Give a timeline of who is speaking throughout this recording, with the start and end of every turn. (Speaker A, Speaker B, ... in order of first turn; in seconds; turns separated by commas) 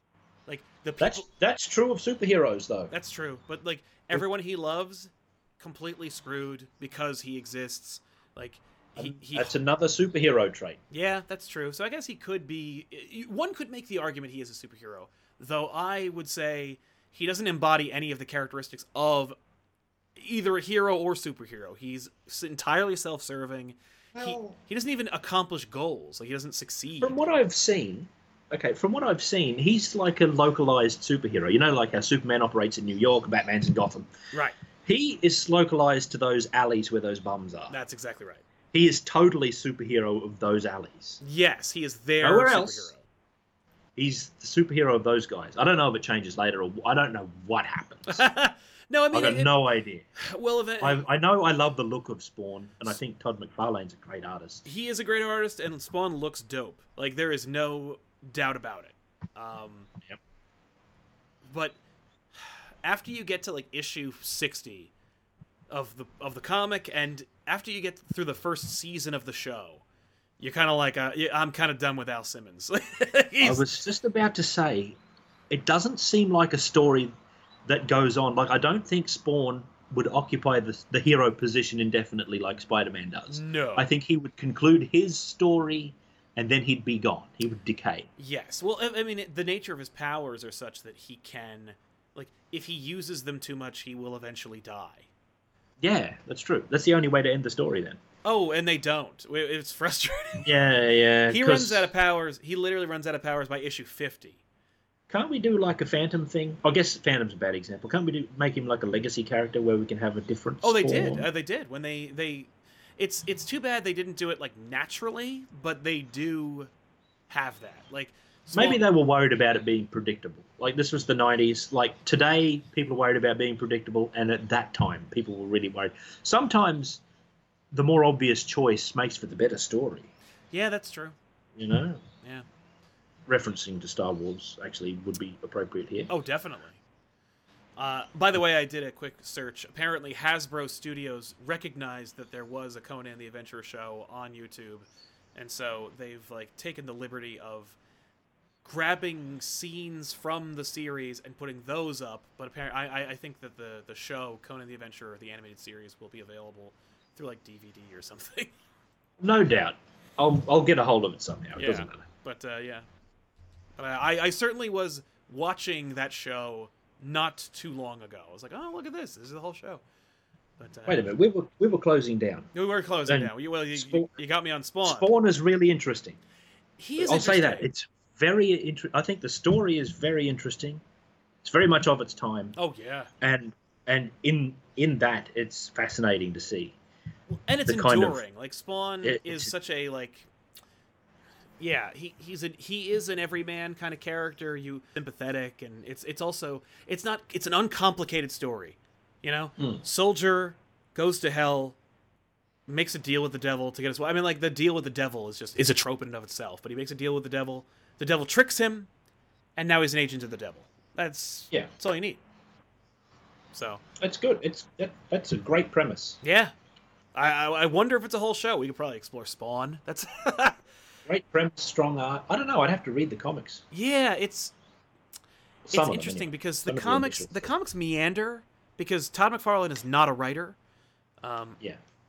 Speaker A: 0.5-1.3, Speaker B: 1.0-2.9, Speaker A: 2.9-9.6, Speaker B: 8.9-10.8, Speaker A: 10.9-19.4, Speaker A: 20.2-27.2, Speaker B: 24.1-24.5, Speaker B: 27.0-34.1, Speaker B: 34.8-37.8, Speaker A: 37.7-38.4, Speaker B: 38.7-41.2, Speaker A: 41.2-43.0, Speaker B: 42.2-42.9, Speaker B: 44.0-48.2, Speaker A: 48.1-49.5, Speaker B: 49.1-50.0, Speaker A: 50.2-51.0, Speaker B: 50.8-54.6, Speaker A: 54.6-59.9, Speaker A: 61.5-61.8, Speaker A: 62.4-64.9, Speaker A: 65.7-69.8, Speaker A: 70.4-73.7, Speaker B: 73.4-75.0, Speaker B: 75.5-77.1, Speaker B: 77.7-88.1, Speaker A: 83.3-83.9, Speaker A: 88.2-95.1, Speaker B: 95.8-98.0, Speaker A: 98.2-100.5, Speaker B: 100.4-101.9, Speaker A: 101.3-104.4, Speaker B: 105.1-111.3, Speaker A: 110.6-116.7, Speaker A: 117.3-118.8, Speaker B: 118.5-127.0, Speaker B: 127.7-130.1, Speaker A: 130.5-131.2, Speaker B: 131.6-132.0, Speaker B: 133.3-136.1, Speaker A: 136.1-136.8, Speaker A: 137.8-147.8, Speaker A: 148.6-158.5, Speaker B: 159.2-162.0, Speaker A: 161.6-162.8, Speaker A: 163.8-169.8, Speaker A: 170.6-171.1, Speaker B: 170.9-172.5, Speaker A: 172.5-175.1, Speaker B: 173.1-174.1, Speaker B: 174.8-176.2, Speaker A: 176.8-177.7, Speaker B: 177.0-180.8, Speaker B: 181.4-182.6, Speaker A: 182.6-183.1, Speaker B: 183.2-186.8, Speaker A: 187.3-190.3, Speaker B: 187.7-188.2, Speaker B: 189.0-189.5, Speaker A: 191.6-201.8, Speaker A: 202.7-208.9, Speaker A: 209.6-212.2, Speaker A: 213.5-213.8, Speaker B: 214.0-216.2, Speaker A: 216.2-216.5, Speaker A: 217.1-220.6, Speaker B: 221.1-223.6, Speaker A: 223.7-224.5, Speaker B: 225.7-227.5, Speaker A: 225.7-230.6, Speaker A: 231.2-231.6